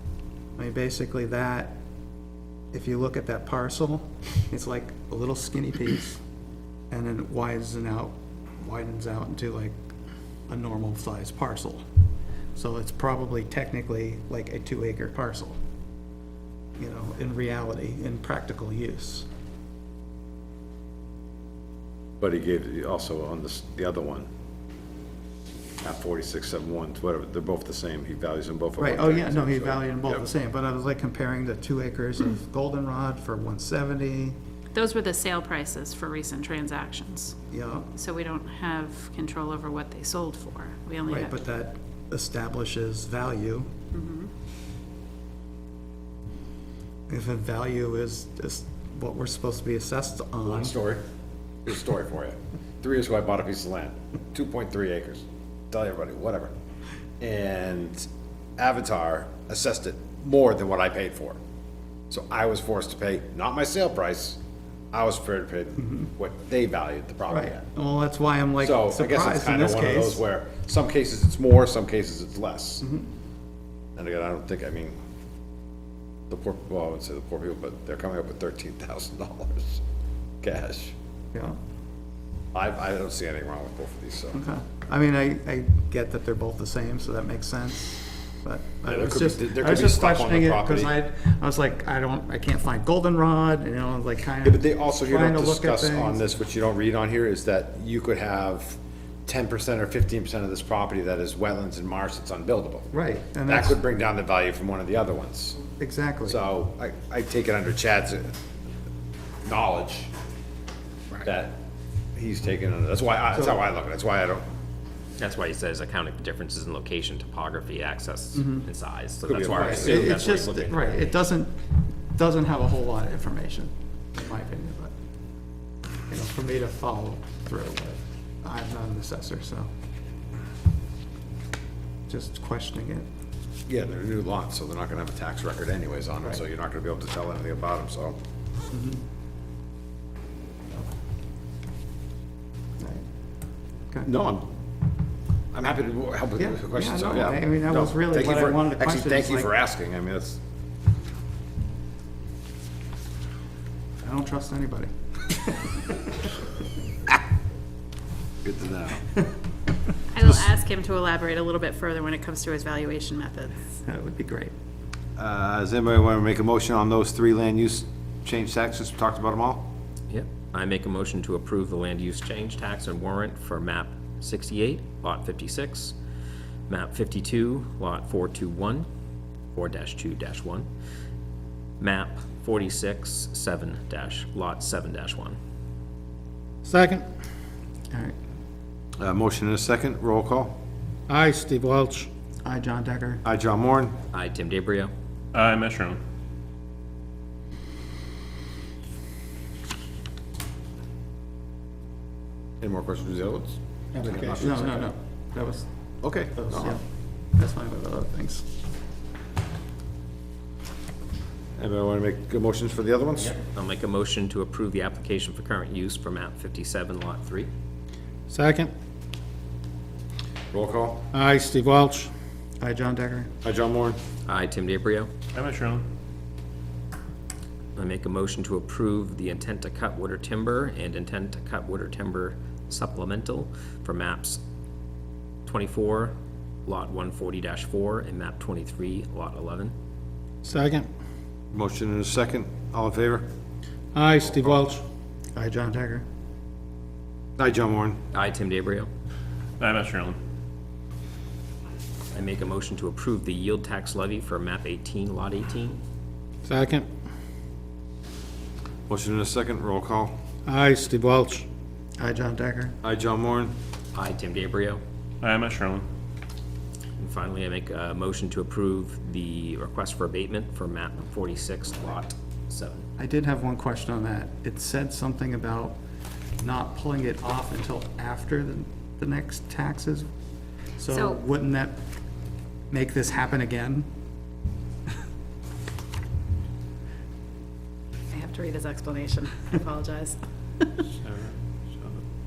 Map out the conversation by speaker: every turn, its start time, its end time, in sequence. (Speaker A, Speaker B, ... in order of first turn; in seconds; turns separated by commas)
Speaker A: 0.6-1.8, Speaker A: 2.7-6.2, Speaker A: 6.9-9.8, Speaker A: 10.5-11.8, Speaker A: 12.6-15.6, Speaker A: 16.8-19.3, Speaker B: 22.2-24.3, Speaker B: 25.8-30.2, Speaker A: 28.8-34.4, Speaker C: 34.7-37.4, Speaker A: 37.5-37.9, Speaker C: 37.9-41.3, Speaker A: 41.1-43.7, Speaker C: 43.9-44.3, Speaker A: 47.1-50.8, Speaker B: 50.5-51.0, Speaker B: 51.6-56.5, Speaker B: 57.2-61.4, Speaker B: 62.1-64.4, Speaker B: 64.9-67.7, Speaker A: 65.8-66.1, Speaker A: 67.3-70.2, Speaker B: 68.6-72.8, Speaker A: 72.8-73.1, Speaker B: 74.0-75.0, Speaker B: 76.3-79.8, Speaker B: 80.4-81.0, Speaker B: 82.5-84.4, Speaker A: 84.3-96.2, Speaker B: 88.9-90.9, Speaker B: 94.4-102.9, Speaker A: 102.9-103.8, Speaker B: 103.5-105.6, Speaker A: 105.8-106.4, Speaker B: 106.3-108.3, Speaker B: 109.5-110.1, Speaker B: 111.2-111.6, Speaker B: 112.2-114.5, Speaker D: 115.2-121.1, Speaker A: 118.4-118.6, Speaker B: 119.2-120.3, Speaker A: 119.5-121.6, Speaker A: 122.1-124.9, Speaker A: 126.1-129.7, Speaker A: 132.1-133.1, Speaker B: 133.7-138.2, Speaker A: 138.7-139.0, Speaker B: 144.0-144.5, Speaker B: 145.5-150.4, Speaker A: 146.4-149.5, Speaker A: 154.0-155.8, Speaker B: 158.4-159.1, Speaker C: 160.1-163.6, Speaker A: 163.8-164.5, Speaker B: 165.2-169.7, Speaker D: 170.1-175.9, Speaker D: 176.7-178.9, Speaker D: 179.5-180.7, Speaker D: 181.8-185.4, Speaker E: 186.7-187.1, Speaker B: 189.0-190.6, Speaker E: 191.1-192.1, Speaker A: 192.4-193.2, Speaker B: 193.2-194.0, Speaker D: 194.1-194.9, Speaker F: 195.3-196.0, Speaker B: 202.6-204.7, Speaker E: 203.9-204.5, Speaker A: 204.4-205.7, Speaker B: 206.0-206.8, Speaker A: 206.3-206.8, Speaker A: 207.3-208.5, Speaker B: 211.6-213.4, Speaker D: 213.2-217.5, Speaker E: 218.3-218.7, Speaker B: 220.5-221.1, Speaker E: 221.1-222.1, Speaker A: 222.6-223.3, Speaker B: 223.4-224.0, Speaker D: 224.3-225.1, Speaker F: 225.3-225.9, Speaker D: 227.8-234.4, Speaker D: 235.5-236.2, Speaker D: 236.7-239.7, Speaker E: 240.4-240.9, Speaker B: 241.5-243.2, Speaker E: 243.9-244.8, Speaker A: 245.3-246.0, Speaker B: 247.4-248.0, Speaker D: 248.1-248.9, Speaker F: 249.6-250.2, Speaker D: 252.1-255.8, Speaker E: 256.5-256.9, Speaker B: 258.9-260.2, Speaker E: 260.5-261.5, Speaker A: 262.0-262.8, Speaker B: 262.8-263.5, Speaker D: 263.9-264.8, Speaker F: 265.2-265.9, Speaker D: 267.0-272.9, Speaker A: 273.0-275.8, Speaker A: 276.4-280.1, Speaker A: 280.8-281.8, Speaker C: 280.9-281.2, Speaker A: 282.7-283.9, Speaker C: 288.1-290.8, Speaker F: 290.9-292.0